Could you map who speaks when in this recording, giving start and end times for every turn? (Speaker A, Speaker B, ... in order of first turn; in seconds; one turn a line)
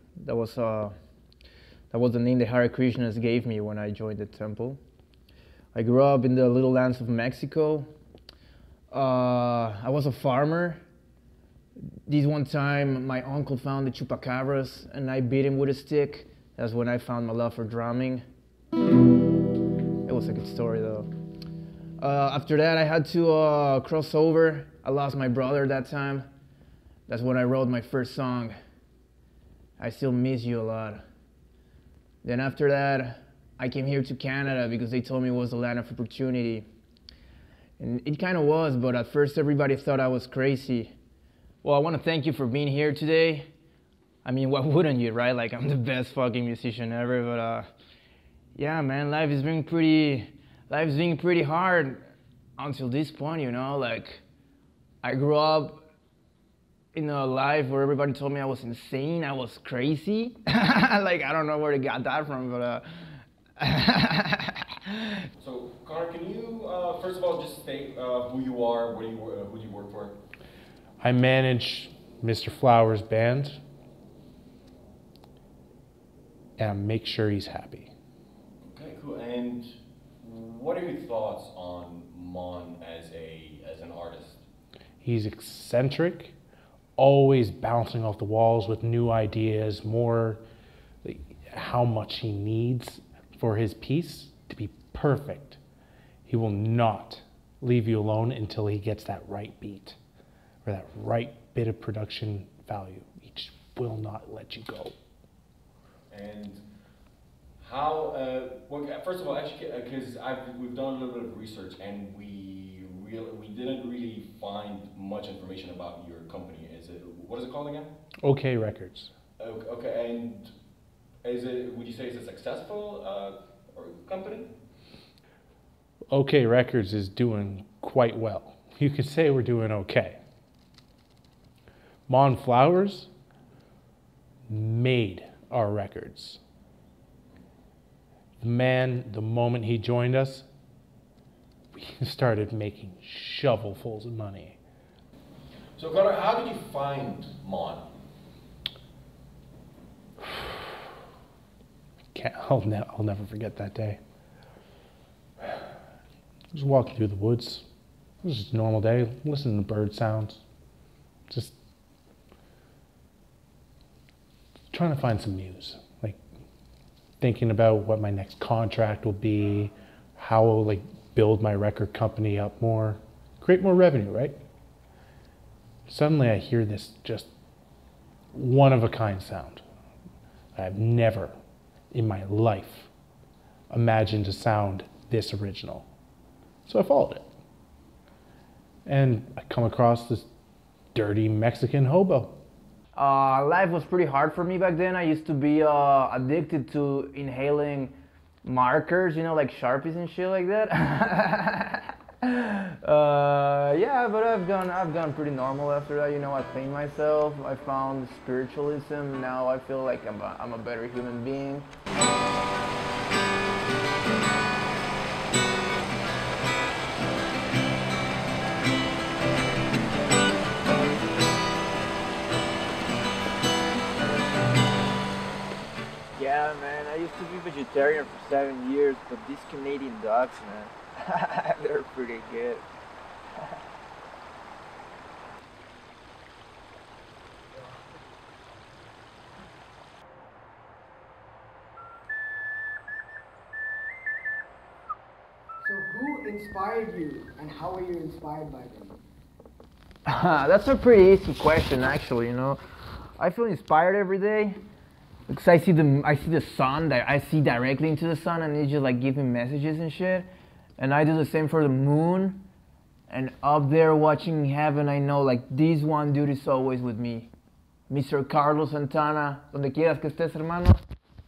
Speaker A: 0.2-0.9
Speaker A: 1.9-4.8
Speaker A: 5.7-7.9
Speaker A: 8.9-10.8
Speaker A: 12.1-18.2
Speaker A: 20.0-21.1
Speaker A: 22.0-26.3
Speaker A: 27.1-28.6
Speaker A: 29.8-31.0
Speaker A: 32.2-36.6
Speaker A: 37.8-40.9
Speaker A: 41.6-43.5
Speaker A: 44.2-47.7
Speaker A: 48.5-52.0
Speaker A: 52.6-54.2
Speaker A: 55.0-55.8
Speaker A: 56.9-62.9
Speaker A: 63.6-65.1
Speaker B: 65.4-70.2
Speaker C: 71.0-73.6
Speaker C: 76.6-77.9
Speaker B: 78.7-84.4
Speaker C: 85.0-86.3
Speaker C: 87.0-90.4
Speaker C: 91.0-95.6
Speaker C: 96.2-100.0
Speaker C: 100.6-104.9
Speaker B: 106.1-106.6
Speaker B: 107.6-117.9
Speaker C: 118.2-119.1
Speaker B: 119.4-120.5
Speaker B: 121.2-124.5
Speaker C: 126.1-130.2
Speaker C: 132.1-133.1
Speaker C: 134.5-136.4
Speaker C: 138.4-140.5
Speaker C: 141.7-144.6
Speaker B: 145.8-147.9
Speaker C: 152.1-154.0
Speaker C: 156.5-157.6
Speaker C: 158.2-160.4
Speaker C: 161.3-161.5
Speaker C: 164.7-166.2
Speaker C: 167.2-174.4
Speaker C: 175.9-177.3
Speaker C: 178.3-179.6
Speaker C: 180.6-181.3
Speaker C: 181.9-182.9
Speaker C: 183.7-185.9
Speaker C: 186.7-187.3
Speaker C: 188.8-190.3
Speaker C: 190.9-192.4
Speaker A: 192.9-211.7
Speaker A: 226.2-232.6
Speaker D: 245.6-249.0
Speaker A: 250.1-252.6
Speaker A: 253.2-254.6
Speaker A: 255.3-262.4
Speaker A: 263.1-267.3
Speaker A: 267.9-270.8